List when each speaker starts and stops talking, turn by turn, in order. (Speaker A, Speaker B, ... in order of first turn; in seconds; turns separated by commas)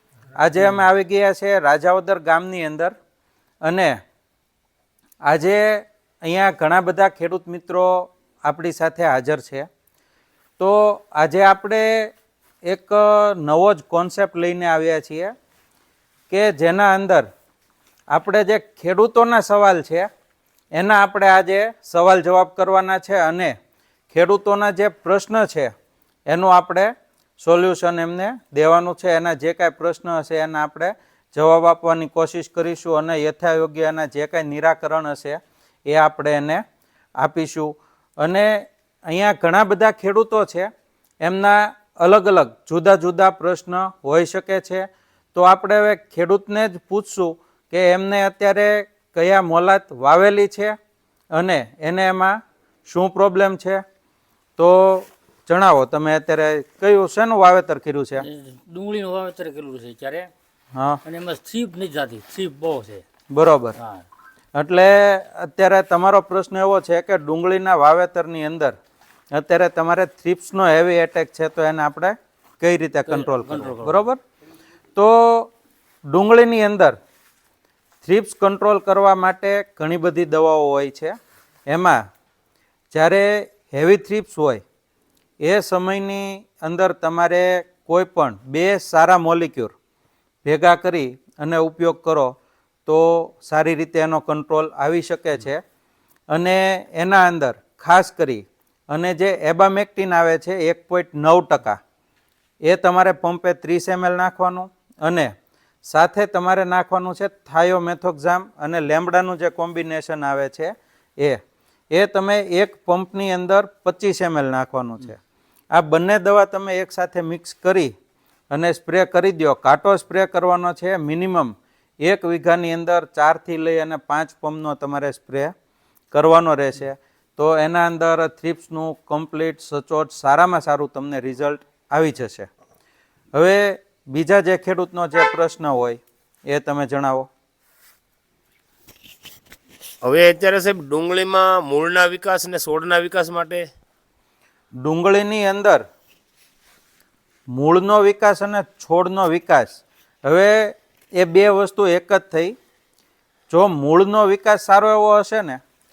Speaker A: 0.4-2.9, Speaker A: 3.6-4.0, Speaker A: 5.2-9.7, Speaker A: 10.6-12.1, Speaker A: 12.6-15.3, Speaker A: 16.3-17.3, Speaker A: 18.1-20.1, Speaker A: 20.7-23.5, Speaker A: 24.1-25.7, Speaker A: 26.3-36.6, Speaker A: 37.2-40.7, Speaker A: 41.2-50.8, Speaker A: 51.3-53.8, Speaker A: 54.6-58.2, Speaker B: 58.2-60.3, Speaker A: 60.7-61.0, Speaker B: 61.0-63.0, Speaker A: 63.3-63.8, Speaker B: 63.8-64.0, Speaker A: 64.5-68.8, Speaker A: 69.3-74.2, Speaker B: 73.0-74.0, Speaker A: 75.0-75.5, Speaker A: 76.1-77.0, Speaker A: 78.0-81.1, Speaker A: 81.7-82.0, Speaker A: 82.9-84.6, Speaker A: 85.4-89.7, Speaker A: 90.4-92.3, Speaker A: 92.8-95.6, Speaker A: 96.3-101.8, Speaker A: 102.6-105.3, Speaker A: 105.8-111.4, Speaker A: 111.9-115.2, Speaker A: 115.7-117.9, Speaker A: 118.5-125.5, Speaker A: 126.1-132.5, Speaker A: 133.3-137.3, Speaker C: 140.0-143.7, Speaker A: 144.8-145.8, Speaker A: 147.5-152.6, Speaker A: 153.5-155.6